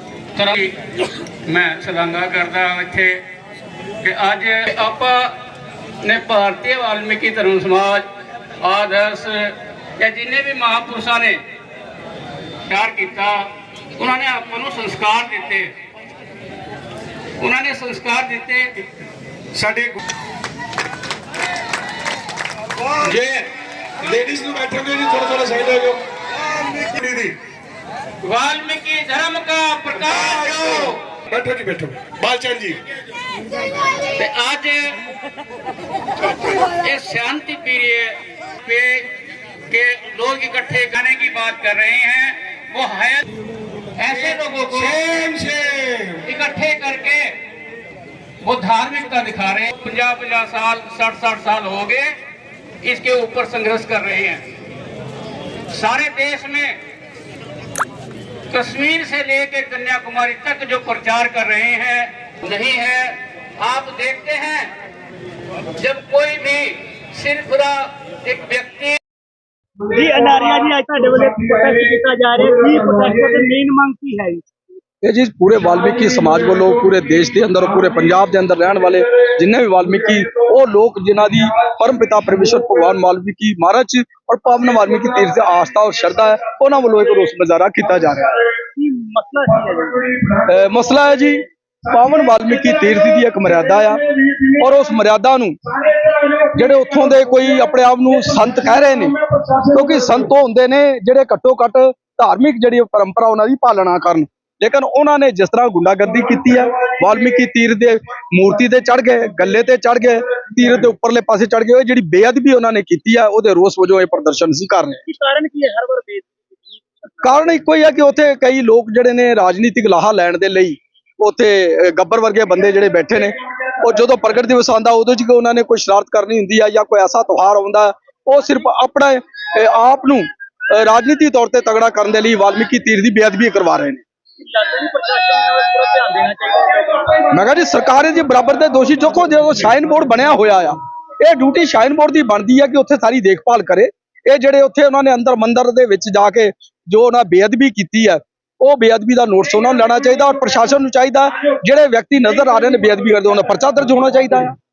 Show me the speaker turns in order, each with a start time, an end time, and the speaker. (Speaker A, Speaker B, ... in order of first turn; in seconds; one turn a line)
Speaker A: 0.3-3.2
Speaker A: 4.0-5.3
Speaker A: 6.0-8.1
Speaker A: 8.6-11.4
Speaker A: 12.7-15.7
Speaker A: 17.4-18.8
Speaker B: 19.5-20.0
Speaker A: 23.0-23.5
Speaker B: 24.0-27.4
Speaker A: 28.2-31.0
Speaker B: 30.3-30.7
Speaker B: 31.3-32.8
Speaker A: 34.0-35.0
Speaker A: 36.3-39.1
Speaker A: 39.7-43.2
Speaker A: 44.0-45.4
Speaker B: 44.8-46.2
Speaker A: 46.2-47.4
Speaker A: 48.4-52.1
Speaker A: 52.8-54.4
Speaker A: 55.7-56.8
Speaker A: 58.5-64.7
Speaker A: 65.8-69.0
Speaker C: 69.9-74.5
Speaker D: 75.0-88.5
Speaker C: 88.7-90.2
Speaker D: 90.4-95.6
Speaker D: 96.2-115.0
Speaker C: 115.1-117.1
Speaker D: 117.2-134.0
Speaker C: 134.4-137.2
Speaker D: 137.3-154.6